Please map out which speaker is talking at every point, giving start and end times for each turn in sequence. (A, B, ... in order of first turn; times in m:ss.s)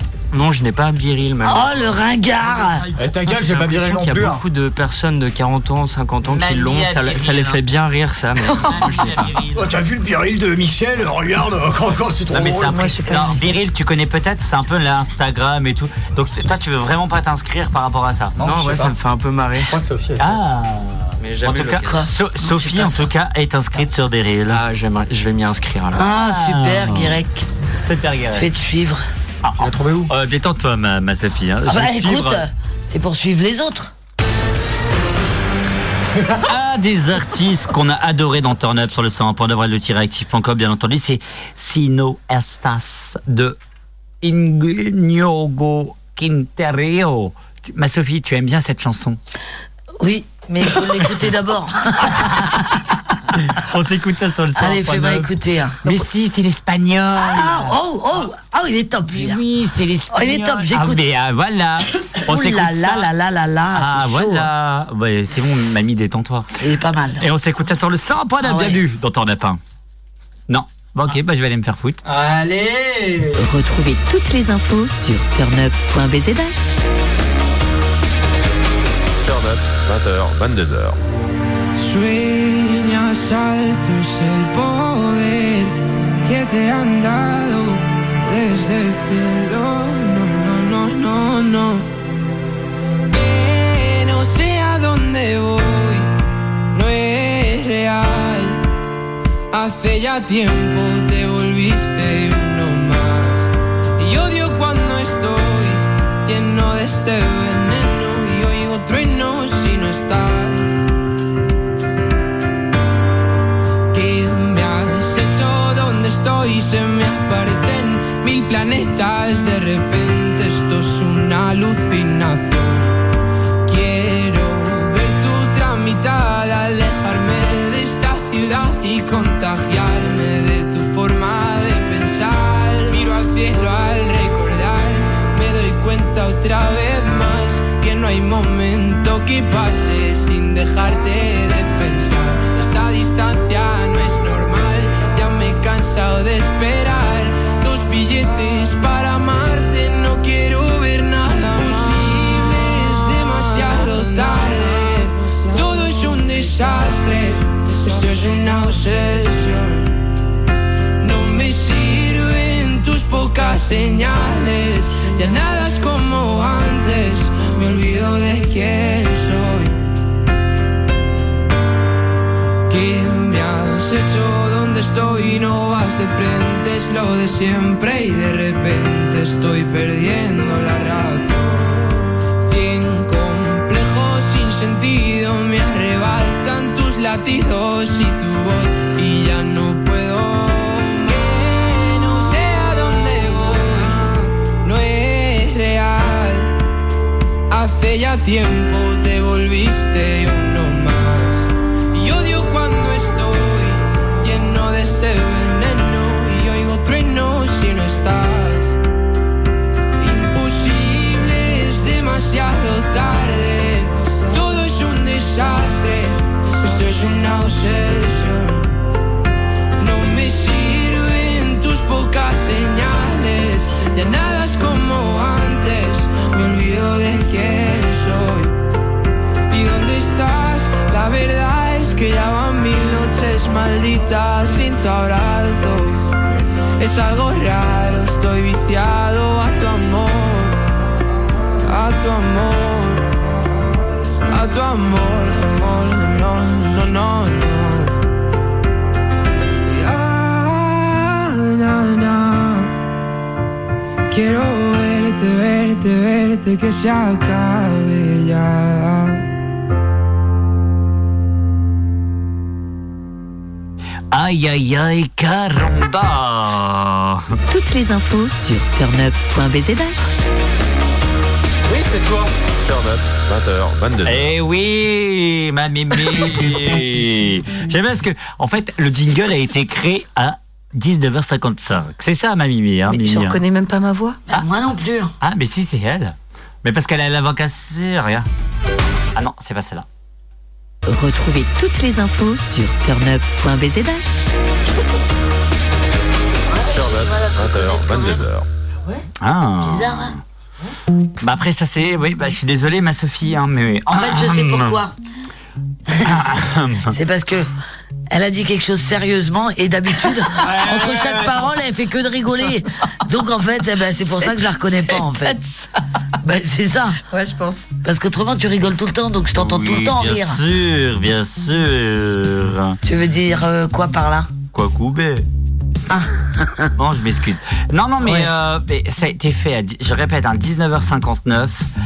0:00.3-0:01.9 A
0:01.4-0:02.8 B
0:02.6-0:02.8 C
0:03.0-0:04.4 D
0:03.2-0:09.3 A
0:06.3-0:07.6 C
0:08.5-0:08.8 E
0:08.6-0:09.7 C
0:09.5-0:13.0 D
0:12.3-0:18.4 C
0:12.7-0:13.4 E
0:18.4-0:19.0 D
0:18.4-0:19.7 A
0:19.6-0:20.4 D
0:20.2-0:24.6 C
0:21.2-0:22.1 A
0:21.8-0:23.1 B
0:24.4-0:26.1 A
0:25.9-0:27.5 B
0:26.1-0:27.2 C
0:27.7-0:28.5 C
0:28.3-0:29.0 B
0:29.4-0:32.4 C
0:29.6-0:30.1 D
0:31.6-0:33.9 B
0:36.4-0:43.6 C
0:44.2-0:49.2 C
0:50.0-0:52.7 B
0:52.1-0:52.7 C
0:53.3-0:55.3 C
0:54.6-0:55.8 B
0:55.8-0:57.8 C
0:57.2-0:59.4 B
0:59.1-1:03.1 C
1:00.1-1:01.0 B
1:02.2-1:04.5 B
1:03.7-1:06.5 C
1:06.6-1:07.3 B
1:07.2-1:09.6 C
1:08.4-1:08.8 B
1:10.5-1:12.0 C
1:12.0-1:13.5 D
1:13.4-1:16.9 F
1:19.2-1:21.0 G
1:21.8-1:31.8 H
1:33.1-1:36.1 H
1:36.7-1:38.6 H
1:39.5-1:43.5 H
1:44.0-1:50.7 H
1:53.9-2:03.0 H
2:03.6-2:39.9 H
2:41.0-2:49.8 H
2:52.7-3:16.5 H
3:17.5-3:28.7 H
3:30.0-3:38.7 H
3:39.8-3:48.5 H
3:49.5-3:56.1 H
3:56.8-4:00.7 H
4:01.6-4:03.1 H
4:04.2-4:08.0 H
4:09.6-4:12.7 H
4:14.1-4:19.2 H
4:24.1-4:27.3 C
4:27.5-4:30.3 F
4:31.6-4:32.3 D
4:32.6-4:34.4 G
4:34.0-4:43.4 C
4:42.9-4:44.2 E
4:44.3-4:45.1 B
4:45.2-4:48.3 C
4:49.1-4:49.9 C
4:50.8-4:54.4 F
4:56.4-4:58.3 B
4:56.7-4:58.4 G
4:59.2-5:00.2 C
4:59.6-5:00.2 B
5:01.2-5:04.8 C
5:03.9-5:04.9 B
5:05.9-5:06.2 B
5:06.0-5:06.9 C
5:06.9-5:07.5 B
5:08.1-5:15.4 B
5:10.3-5:11.4 D
5:14.1-5:15.8 E
5:16.2-5:17.0 B
5:17.1-5:17.7 E
5:17.8-5:20.4 B
5:19.3-5:22.8 C
5:22.8-5:24.3 B
5:24.5-5:25.2 C
5:25.9-5:26.7 B
5:26.8-5:31.7 C
5:28.0-5:28.3 B